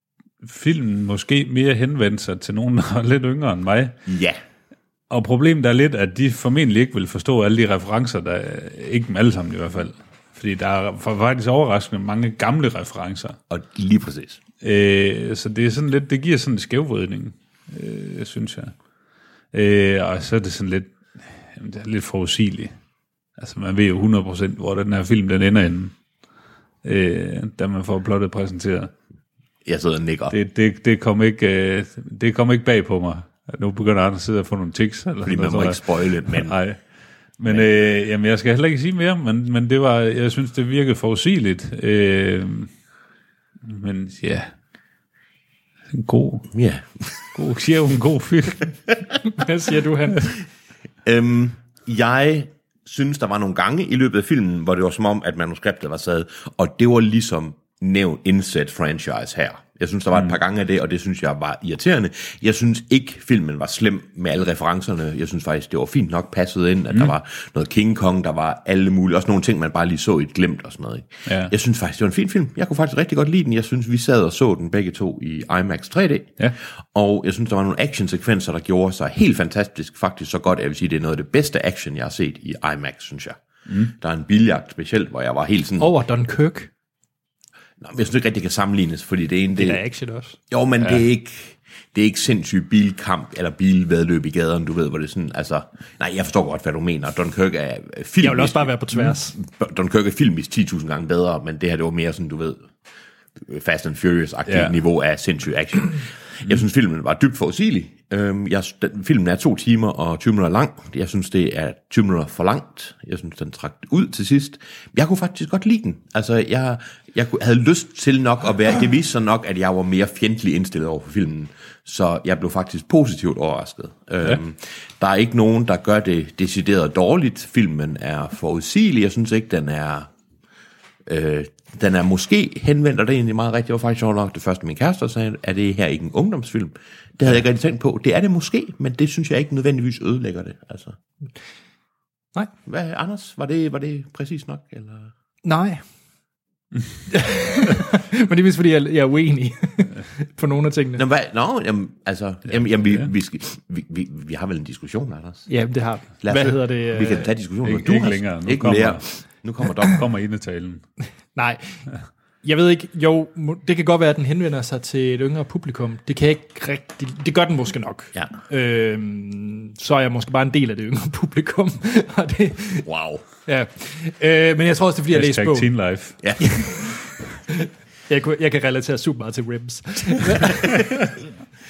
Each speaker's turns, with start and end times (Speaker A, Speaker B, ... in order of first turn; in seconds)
Speaker A: 0.4-3.9, 5.1-13.4, 14.6-18.7, 19.5-22.7, 23.4-25.9, 26.8-28.9, 30.3-36.8, 37.4-42.7, 43.6-44.5, 45.9-46.5, 47.3-48.7, 71.3-71.5, 83.7-83.9, 104.5-104.7, 157.6-159.1, 159.8-160.8, 175.1-176.2
Speaker B: 4.0-4.4, 13.5-14.4, 29.6-30.3, 35.2-36.5, 46.5-47.1, 51.0-76.4, 76.9-85.9, 87.8-89.8, 90.5-102.7, 103.4-130.1, 131.1-141.0, 142.7-145.1, 151.0-155.5, 156.2-160.0, 172.8-173.2, 176.2-176.5
Speaker C: 49.3-50.3, 85.8-86.7, 89.6-90.4, 98.2-99.3, 145.4-145.8, 147.1-151.0, 155.5-157.3, 161.3-161.8, 162.4-172.9, 173.4-175.7, 176.4-176.9, 177.5-181.1